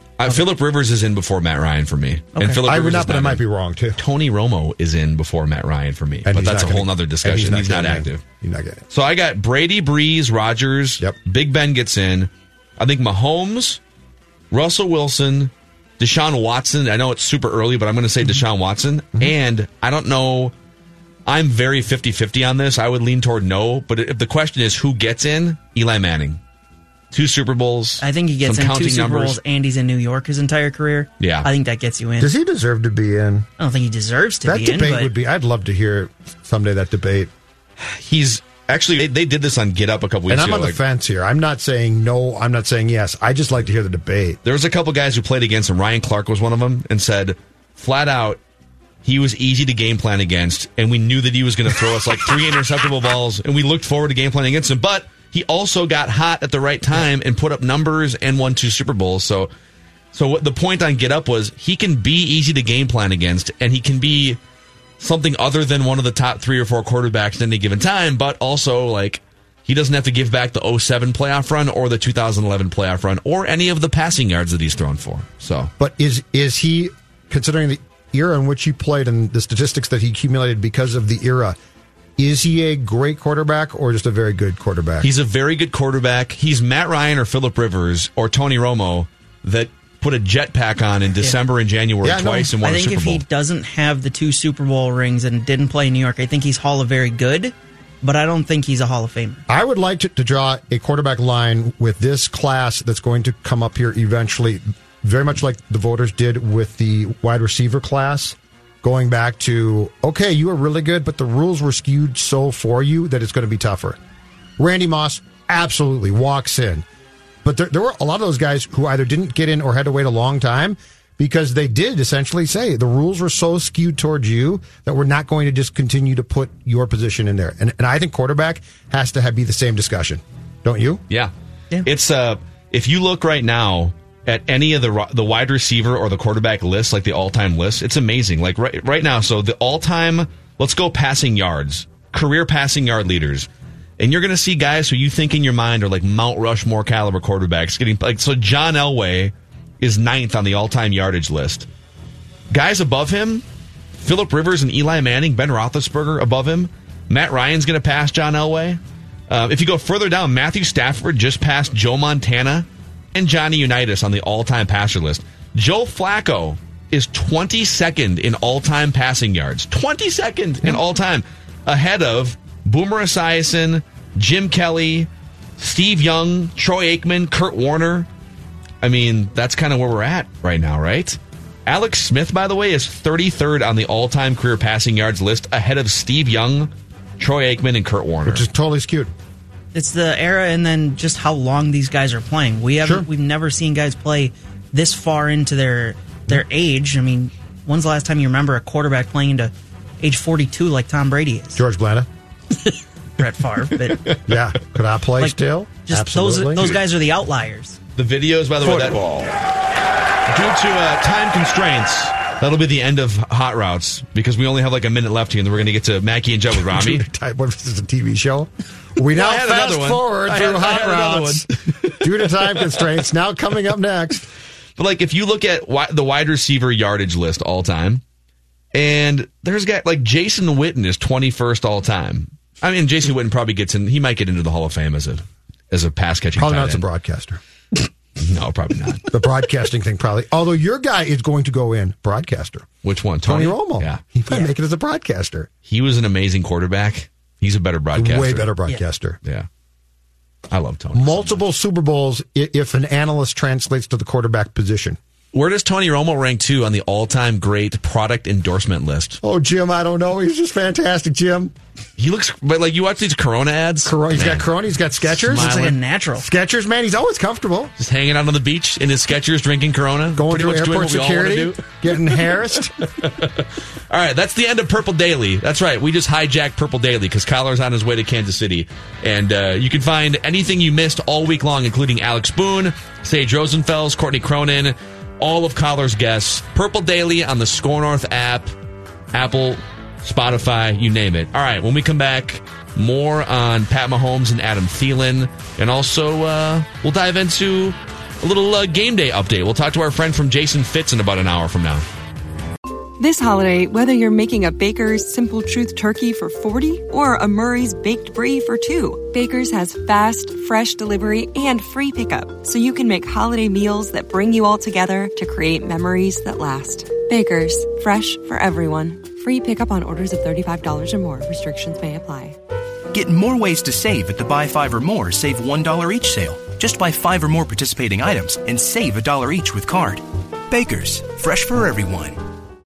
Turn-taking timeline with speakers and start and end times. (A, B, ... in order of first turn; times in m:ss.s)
0:00.2-0:03.4 A
0:02.3-0:02.6 B
0:02.6-0:04.0 C
0:04.0-0:08.2 A
0:06.2-0:08.8 C
0:08.9-0:13.8 A
0:14.5-0:20.5 A
0:21.3-0:26.4 A
0:27.1-0:29.4 A
0:28.0-0:32.3 B
0:31.2-0:31.5 A
0:32.2-0:33.5 C
0:33.6-0:35.1 B
0:34.4-0:37.3 C
0:37.8-0:40.8 A
0:40.3-0:44.4 C
0:44.4-0:48.4 A
0:49.0-0:59.5 A
1:00.1-1:04.4 A
1:05.0-1:15.7 A
1:15.8-1:21.6 C
1:22.2-1:25.1 C
1:25.0-1:33.2 A
1:32.0-1:32.6 C
1:32.6-1:39.4 B
1:39.5-1:54.0 C
1:54.6-1:56.8 C
1:57.4-2:11.0 C
2:11.8-2:23.5 A
2:24.0-2:31.7 A
2:32.5-2:33.4 A
2:34.0-2:58.1 A
2:58.8-3:08.4 A
3:08.2-3:09.1 C
3:09.7-3:21.6 B
3:12.8-3:13.1 C
3:21.5-3:22.1 C
3:23.2-3:24.0 B
3:23.8-3:24.2 A
3:24.3-3:26.8 C
3:25.2-3:27.8 B
3:28.0-3:29.1 A
3:30.3-3:37.0 A
3:36.6-3:41.5 C
3:39.1-3:42.6 A
3:42.0-3:44.3 C
3:44.8-3:48.0 A
3:48.7-3:56.8 A
3:56.4-3:57.4 C
3:58.2-3:59.1 A
3:59.1-4:02.7 C
4:02.8-4:04.0 A
4:03.2-4:05.5 C
4:05.6-4:08.5 A
4:07.9-4:09.2 C
4:10.5-4:11.4 A
4:10.9-4:15.0 C
4:15.3-4:19.2 A
4:19.2-4:21.5 C
4:22.0-4:24.5 A
4:23.8-4:25.6 C
4:25.0-4:25.8 A
4:25.3-4:26.2 B
4:26.2-4:27.7 C
4:27.8-4:31.8 A
4:30.1-4:32.7 C
4:32.6-4:48.5 A
4:49.1-5:01.8 A
5:03.0-5:22.4 D
5:22.9-5:32.2 E